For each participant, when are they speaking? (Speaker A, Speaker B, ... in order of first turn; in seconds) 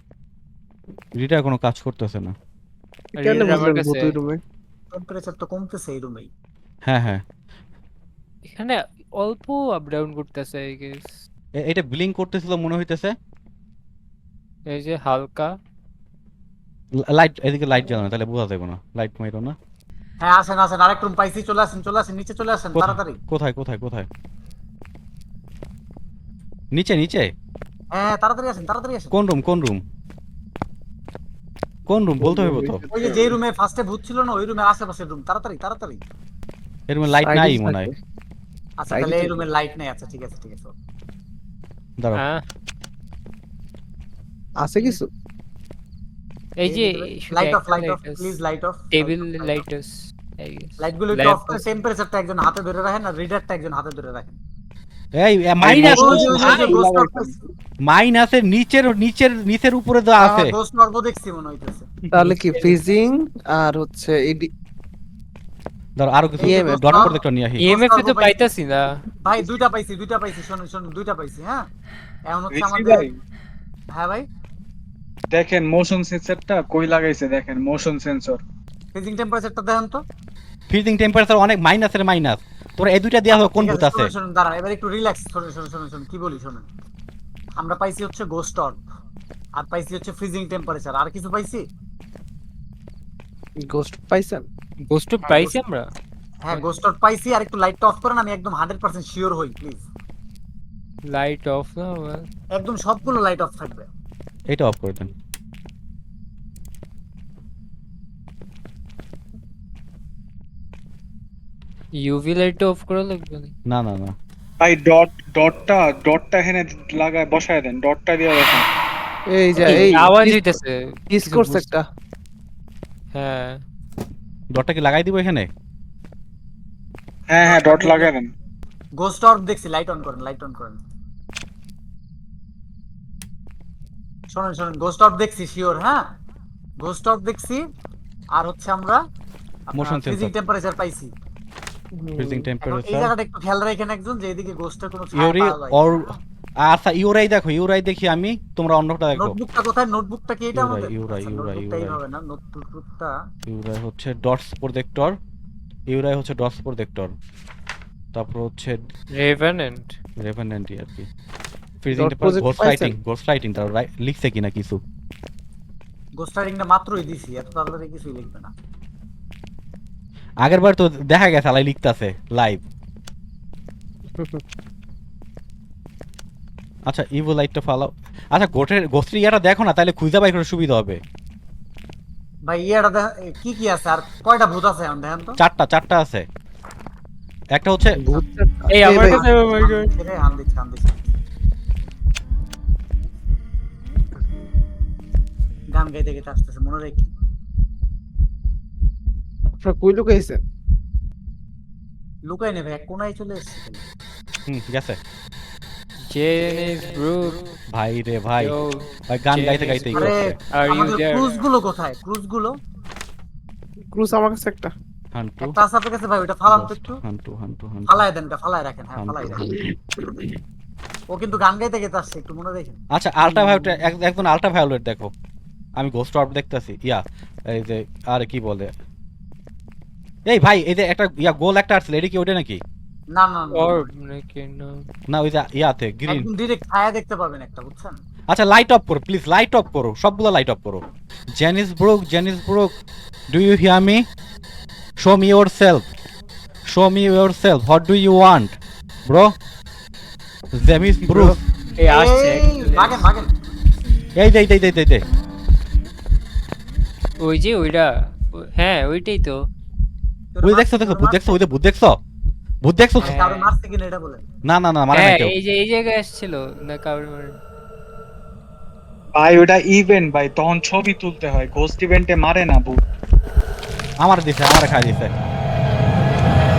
Speaker A: 1.2-2.3, 6.8-7.2, 11.6-13.2, 16.9-19.6, 22.8-24.1, 26.7-27.3, 29.1-29.8, 31.9-32.8, 36.9-37.9, 55.2-56.7, 57.9-60.6, 66.0-67.7, 80.7-84.1, 104.5-105.1, 113.7-114.2, 124.5-125.5, 139.8-140.3, 142.2-143.1, 145.2-146.1, 146.7-149.4, 150.5-152.0, 153.5-155.2, 155.9-157.1, 158.1-158.8, 160.2-161.1, 161.8-164.8, 170.4-172.6, 176.9-181.0, 185.4-186.3, 187.6-188.0, 204.5-205.0, 207.7-208.6, 209.1-210.4, 215.1-215.6, 216.5-218.1, 219.0-219.4, 222.9-225.1, 225.8-228.7, 230.3-232.6, 235.1-236.3, 238.3-240.8, 241.4-244.0, 245.0-245.9, 246.7-249.3, 250.6-251.4, 254.2-255.1, 260.4-262.0, 262.6-263.1, 264.4-265.3, 274.0-275.1
Speaker B: 3.2-4.2, 8.5-11.2, 14.7-15.5, 42.1-42.4, 46.6-48.4, 48.9-51.6, 62.1-62.8, 67.6-68.9, 94.9-95.9, 101.1-102.3, 112.0-113.5, 119.6-121.7, 123.1-123.6, 159.2-159.9, 188.7-189.9, 206.1-207.4, 208.4-211.4, 233.6-234.8, 251.1-253.0, 257.2-259.4, 263.0-263.5, 264.9-267.4
Speaker C: 3.2-4.4, 32.2-33.4, 37.1-38.0, 38.9-39.4, 44.6-45.1, 62.1-64.5, 66.4-67.1, 93.7-94.5, 119.3-120.6, 121.1-121.8, 142.0-142.5, 161.9-163.0, 174.2-174.4, 188.0-189.2, 199.6-200.4, 213.9-214.7, 223.3-223.9
Speaker D: 4.9-6.3, 20.2-23.2, 27.9-29.1, 32.9-36.0, 38.8-40.7, 46.6-49.6, 50.8-54.4, 55.7-57.3, 60.2-61.9, 66.4-68.4, 69.2-71.6, 72.3-73.1, 74.0-74.2, 79.0-80.0, 83.3-86.7, 87.6-88.8, 89.6-91.6, 96.4-99.8, 102.5-103.9, 127.4-128.1, 129.0-130.8, 134.3-136.0, 136.8-137.6, 138.4-139.0, 139.8-141.1, 142.6-146.1, 149.1-153.1, 166.2-168.5, 182.5-185.4, 189.0-191.1, 195.8-197.1, 202.3-203.8, 209.9-212.5, 215.4-217.0, 217.9-219.5, 221.1-222.8, 233.2-233.9, 236.1-238.0, 251.9-253.3, 260.4-261.4, 263.0-264.2
Speaker E: 55.6-57.3, 72.5-73.1, 75.3-78.4, 114.6-118.7, 127.3-128.3, 269.1-272.8